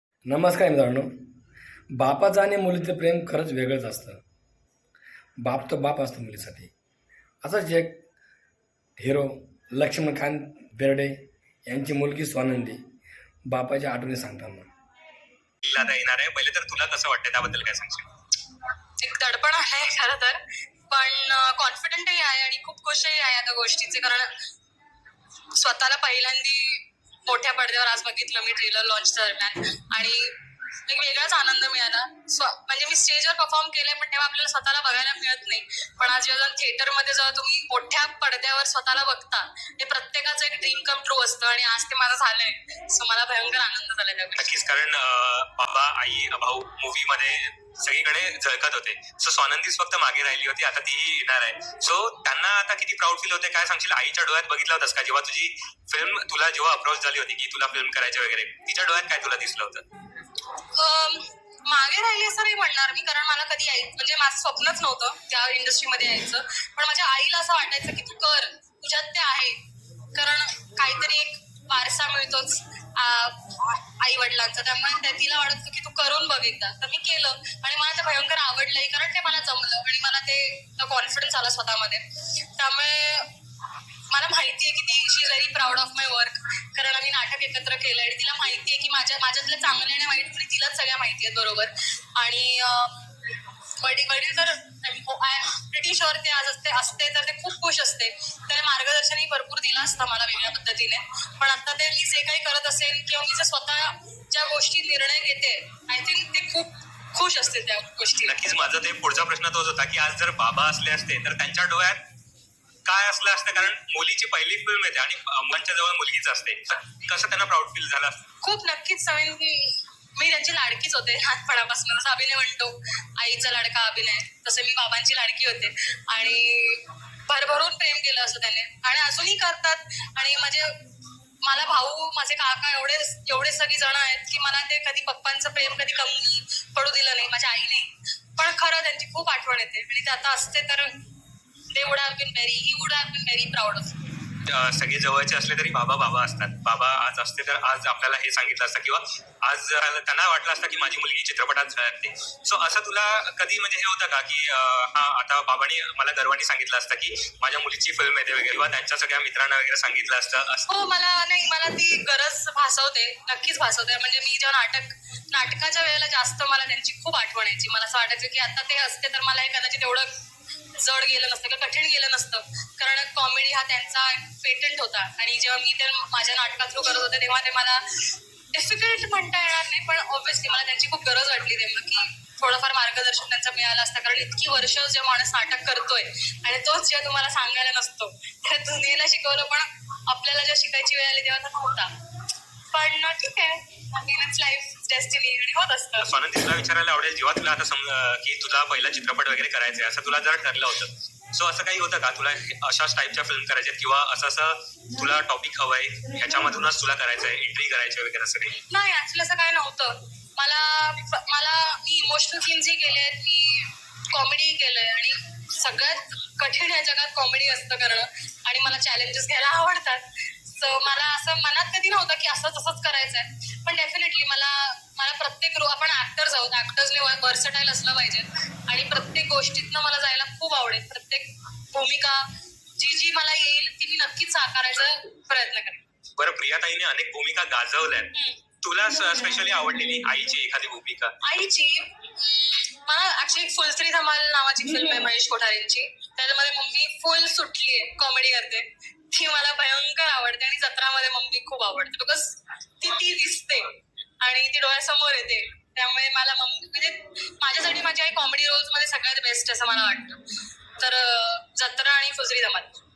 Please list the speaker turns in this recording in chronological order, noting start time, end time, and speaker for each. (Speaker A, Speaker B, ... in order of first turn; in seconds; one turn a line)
Speaker A: 0.3-1.1
Speaker A: 2.0-4.2
Speaker A: 5.4-6.7
Speaker A: 7.4-8.0
Speaker A: 9.0-11.1
Speaker A: 11.7-12.8
Speaker A: 13.5-14.7
Speaker B: 15.6-18.1
Speaker C: 19.0-24.3
Speaker C: 25.6-30.3
Speaker C: 30.9-44.5
Speaker B: 44.4-59.8
Speaker C: 60.8-69.6
Speaker C: 70.1-82.0
Speaker C: 82.6-83.3
Speaker C: 84.1-93.1
Speaker C: 93.8-108.6
Speaker B: 108.2-112.0
Speaker B: 112.8-118.2
Speaker C: 118.4-130.7
Speaker C: 131.4-140.9
Speaker C: 141.7-144.1
Speaker B: 144.5-160.7
Speaker C: 160.7-170.1
Speaker C: 170.7-177.8
Speaker C: 178.5-191.9
Speaker C: 192.7-196.1
Speaker B: 196.0-208.6
Speaker C: 208.7-232.2
Speaker C: 232.8-235.8
Speaker B: 236.2-241.1
Speaker C: 238.1-238.4
Speaker C: 241.2-253.7
Speaker C: 254.2-260.2
Speaker C: 260.8-262.8